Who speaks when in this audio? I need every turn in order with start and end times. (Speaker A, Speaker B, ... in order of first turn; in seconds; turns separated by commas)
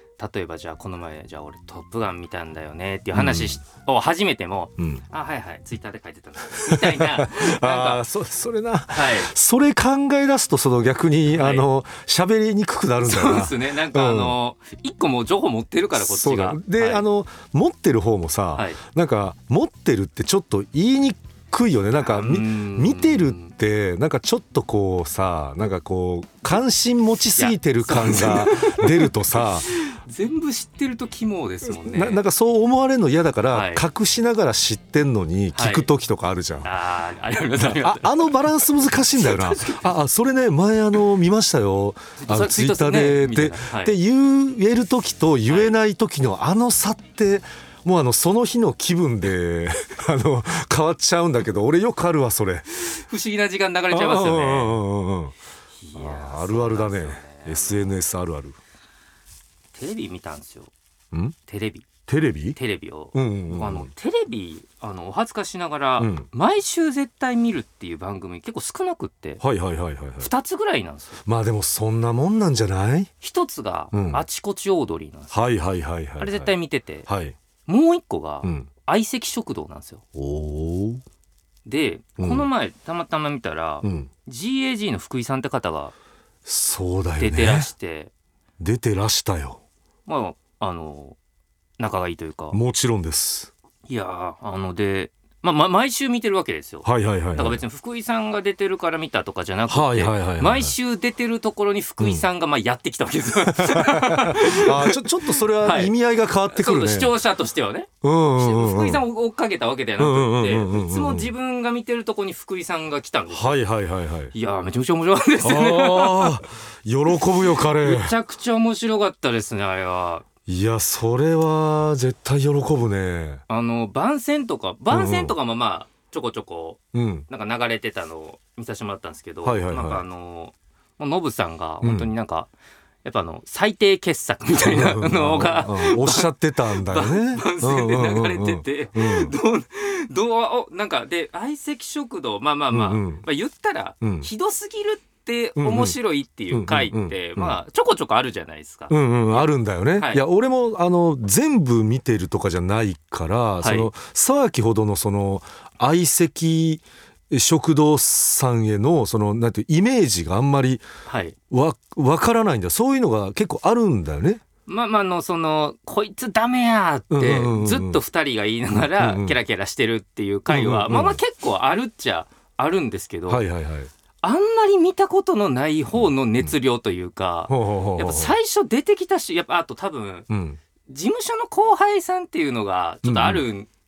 Speaker A: 0.2-8.0, Speaker B: 3.1-3.6, Speaker B: 4.8-5.0, Speaker B: 6.5-14.3, Speaker A: 8.9-9.3, Speaker A: 11.3-11.7, Speaker A: 13.1-17.0, Speaker B: 15.9-29.7, Speaker A: 22.0-23.5, Speaker A: 27.4-32.2, Speaker B: 31.6-36.7, Speaker A: 33.5-33.8, Speaker A: 35.5-35.9, Speaker A: 36.6-38.3, Speaker B: 37.7-52.7, Speaker A: 39.1-39.9, Speaker A: 42.2-44.0, Speaker A: 45.5-45.7, Speaker A: 52.8-54.8, Speaker B: 53.9-55.3, Speaker A: 55.8-57.9, Speaker B: 55.9-58.6, Speaker A: 59.7-60.7, Speaker A: 61.5-61.9, Speaker B: 62.1-62.6, Speaker A: 62.5-69.4, Speaker B: 63.1-63.9, Speaker B: 66.0-66.3, Speaker B: 69.4-70.3, Speaker A: 70.2-71.2, Speaker B: 71.2-73.1, Speaker A: 73.2-75.3, Speaker B: 73.9-74.2, Speaker B: 75.3-76.5, Speaker A: 76.2-77.1, Speaker B: 77.1-77.3, Speaker A: 77.7-80.0, Speaker B: 78.4-78.7, Speaker B: 80.1-81.0, Speaker A: 81.6-85.9, Speaker B: 82.2-82.5, Speaker B: 83.8-84.1, Speaker B: 86.4-87.7, Speaker A: 87.2-88.1, Speaker B: 88.6-89.6, Speaker A: 90.1-91.2, Speaker A: 91.8-92.6, Speaker B: 92.5-93.5, Speaker A: 93.9-105.9, Speaker B: 96.8-97.6, Speaker B: 99.7-100.7, Speaker B: 102.0-102.2, Speaker B: 103.5-107.1, Speaker A: 106.5-113.6, Speaker B: 108.0-109.0, Speaker B: 110.0-111.3, Speaker B: 113.3-114.3, Speaker A: 114.3-116.4, Speaker B: 115.4-118.1, Speaker A: 117.4-120.2, Speaker B: 120.5-123.4, Speaker A: 123.5-132.5, Speaker B: 124.9-125.3, Speaker B: 126.9-127.2, Speaker B: 129.4-130.0, Speaker B: 131.8-132.1, Speaker A: 133.0-150.2, Speaker B: 134.6-139.3, Speaker B: 142.7-143.2, Speaker B: 144.0-144.3, Speaker B: 145.6-145.9, Speaker B: 146.5-147.6, Speaker B: 148.9-160.8, Speaker A: 153.6-153.9, Speaker A: 161.1-161.3, Speaker B: 161.5-164.4, Speaker A: 164.7-173.4, Speaker B: 167.1-168.0, Speaker B: 168.8-169.4, Speaker B: 170.5-171.2, Speaker B: 173.3-173.9, Speaker A: 174.2-180.3, Speaker B: 175.9-176.5, Speaker B: 177.5-178.3, Speaker B: 180.3-180.6, Speaker A: 180.8-183.7, Speaker B: 183.0-183.4